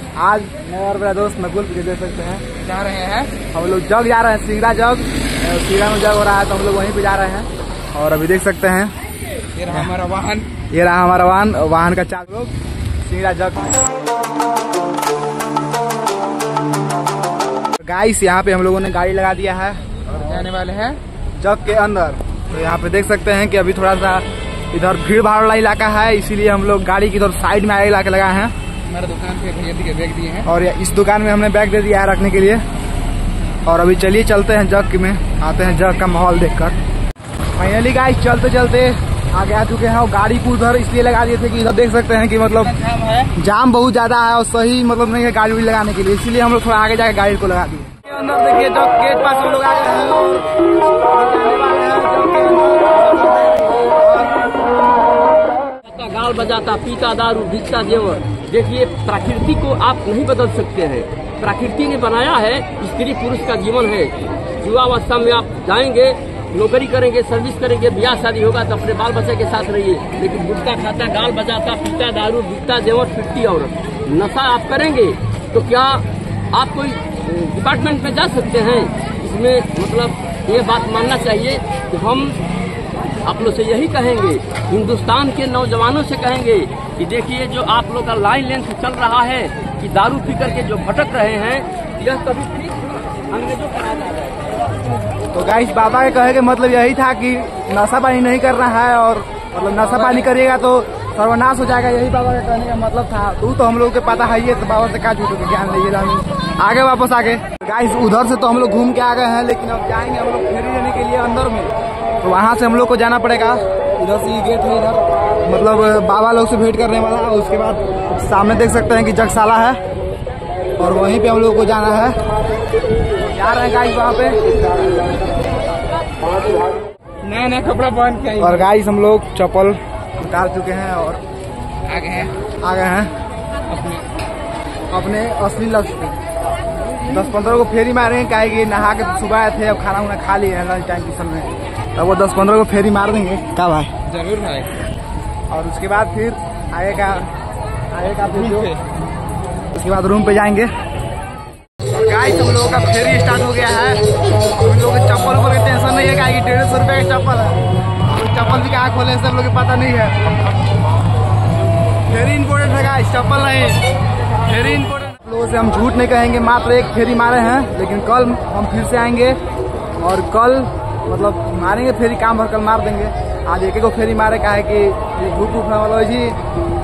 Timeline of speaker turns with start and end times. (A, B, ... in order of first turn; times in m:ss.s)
0:00.2-0:02.4 A
0:02.6-0:03.3 B
0:03.5-0:08.9 A
0:09.5-0:10.5 B
0:10.7-0:13.8 A
0:17.8-0:20.2 A
0:20.2-0:21.0 B
0:21.4-0:28.5 A
0:28.9-0:30.5 B
0:30.5-0:32.6 A
0:33.7-0:36.8 A
0:37.6-0:50.5 A
0:42.8-0:43.0 C
0:51.1-0:54.4 A
0:55.8-1:22.4 C
1:23.2-1:34.6 C
1:35.3-1:59.8 A
2:00.8-2:02.2 A
2:03.2-2:04.5 A
2:07.2-2:08.7 B
2:08.4-2:11.2 A
2:11.8-2:12.4 B
2:12.6-2:13.1 A
2:13.7-2:14.0 B
2:14.9-2:16.2 A
2:17.1-2:24.1 A
2:24.1-2:24.7 B
2:25.5-2:27.3 A
2:27.9-2:28.8 A
2:29.7-2:30.7 A
2:32.0-2:40.2 A
2:42.1-2:43.8 A
2:44.4-2:49.4 A
2:50.0-2:56.4 A